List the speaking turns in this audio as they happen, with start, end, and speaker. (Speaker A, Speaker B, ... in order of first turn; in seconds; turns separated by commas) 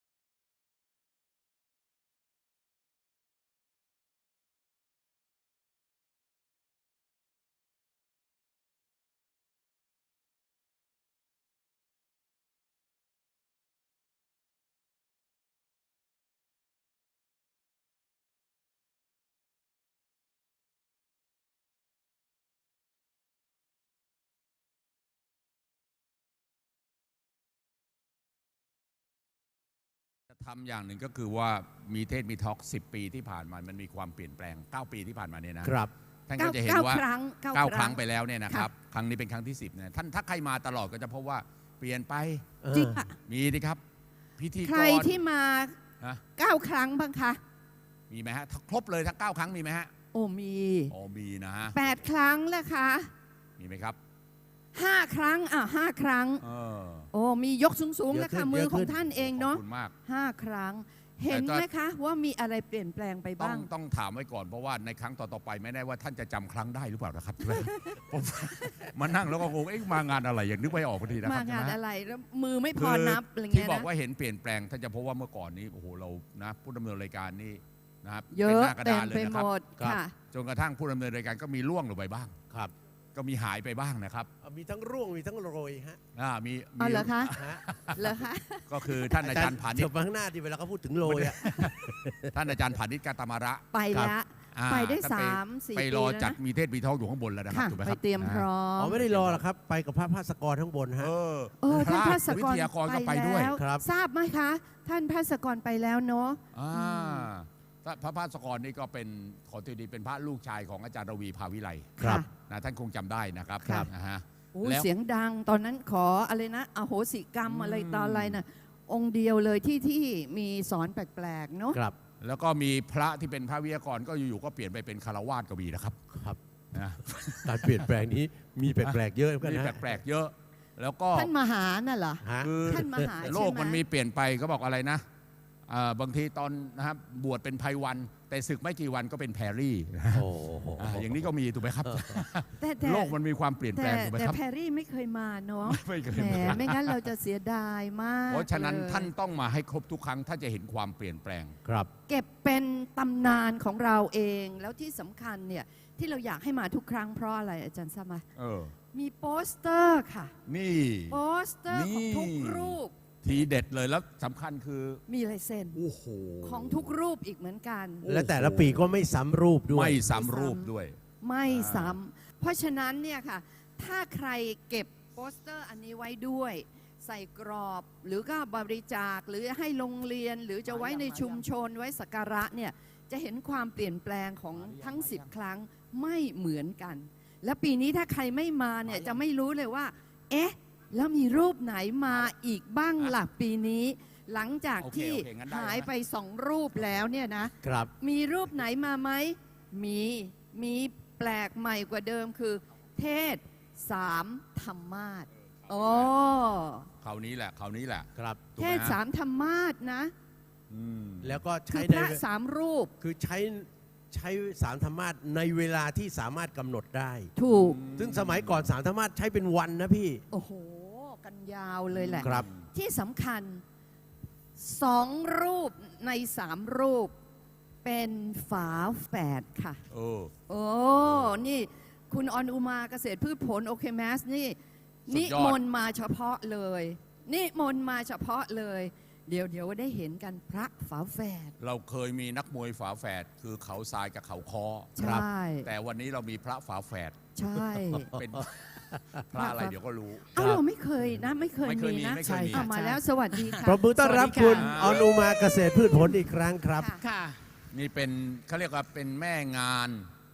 Speaker A: 30.3-35.8, Speaker B: 35.6-35.9, Speaker A: 36.3-42.5, Speaker C: 36.4-38.7, Speaker B: 42.6-43.0, Speaker C: 42.7-43.1, Speaker A: 43.2-43.8, Speaker A: 44.4-45.2, Speaker C: 44.6-45.8, Speaker C: 46.4-47.4, Speaker A: 48.1-49.9, Speaker C: 50.1-50.9, Speaker A: 50.9-51.8, Speaker C: 51.7-53.1, Speaker A: 53.6-54.0, Speaker C: 54.7-56.4, Speaker A: 56.4-57.1, Speaker C: 57.1-63.7, Speaker B: 58.1-59.0, Speaker A: 59.2-60.0, Speaker A: 61.3-61.7, Speaker A: 63.4-71.8, Speaker C: 67.4-68.0, Speaker C: 68.5-68.9, Speaker C: 71.2-73.9, Speaker A: 72.8-79.5, Speaker C: 78.3-80.2, Speaker A: 80.2-82.3, Speaker A: 83.2-84.3, Speaker B: 84.4-86.0, Speaker A: 86.2-88.0, Speaker C: 86.8-87.3, Speaker B: 87.3-87.6, Speaker C: 88.0-89.2, Speaker A: 88.7-89.9, Speaker B: 89.2-92.4, Speaker A: 91.0-93.7, Speaker C: 93.7-96.4, Speaker A: 94.5-99.4, Speaker C: 97.5-99.0, Speaker B: 98.8-101.1, Speaker A: 101.0-103.5, Speaker C: 101.6-107.3, Speaker B: 103.5-103.8, Speaker A: 106.5-114.9, Speaker C: 112.0-112.3, Speaker B: 112.0-112.2, Speaker B: 113.6-113.9, Speaker C: 113.6-113.9, Speaker C: 114.5-121.8, Speaker A: 117.5-118.3, Speaker A: 122.2-126.0, Speaker B: 126.1-126.4, Speaker A: 126.7-127.9, Speaker B: 127.4-129.9, Speaker A: 128.8-131.3, Speaker C: 131.1-133.8, Speaker B: 132.2-133.3, Speaker A: 132.4-135.0, Speaker A: 135.7-144.4, Speaker B: 140.1-141.2, Speaker B: 141.8-142.2, Speaker C: 142.6-143.2, Speaker C: 143.7-149.1, Speaker A: 145.7-146.9, Speaker A: 148.3-151.6, Speaker C: 152.1-158.2, Speaker A: 158.4-158.8, Speaker C: 158.9-160.3, Speaker A: 160.5-165.0, Speaker C: 161.1-162.9, Speaker C: 165.1-165.8, Speaker A: 165.7-166.9, Speaker C: 166.4-168.1, Speaker A: 168.0-168.9, Speaker B: 168.1-170.1, Speaker A: 169.7-172.0, Speaker C: 170.1-170.7, Speaker C: 171.2-206.9, Speaker A: 180.8-181.3, Speaker A: 184.6-185.3, Speaker A: 188.9-189.2, Speaker A: 194.8-195.9, Speaker B: 197.6-197.9, Speaker A: 205.7-206.1, Speaker A: 207.0-209.0, Speaker C: 208.6-210.1, Speaker A: 210.7-211.4, Speaker B: 211.2-212.2, Speaker C: 211.7-212.9, Speaker B: 213.0-217.3, Speaker C: 217.4-217.8, Speaker A: 217.5-218.7, Speaker B: 217.9-220.2, Speaker C: 220.3-223.6, Speaker B: 222.1-222.5, Speaker A: 222.2-222.6, Speaker C: 224.6-227.2, Speaker C: 227.8-229.8, Speaker A: 229.9-230.3, Speaker C: 230.5-241.5, Speaker A: 235.1-235.6, Speaker A: 241.6-247.2, Speaker C: 245.0-245.7, Speaker B: 245.0-245.2, Speaker C: 247.4-248.2, Speaker B: 247.9-249.2, Speaker A: 248.2-250.3, Speaker C: 249.3-249.8, Speaker C: 250.3-253.8, Speaker B: 250.4-250.6, Speaker A: 251.6-252.7, Speaker D: 252.2-254.8, Speaker B: 253.7-256.9, Speaker A: 254.5-255.2, Speaker C: 256.8-257.0, Speaker D: 257.0-257.4, Speaker A: 257.7-260.1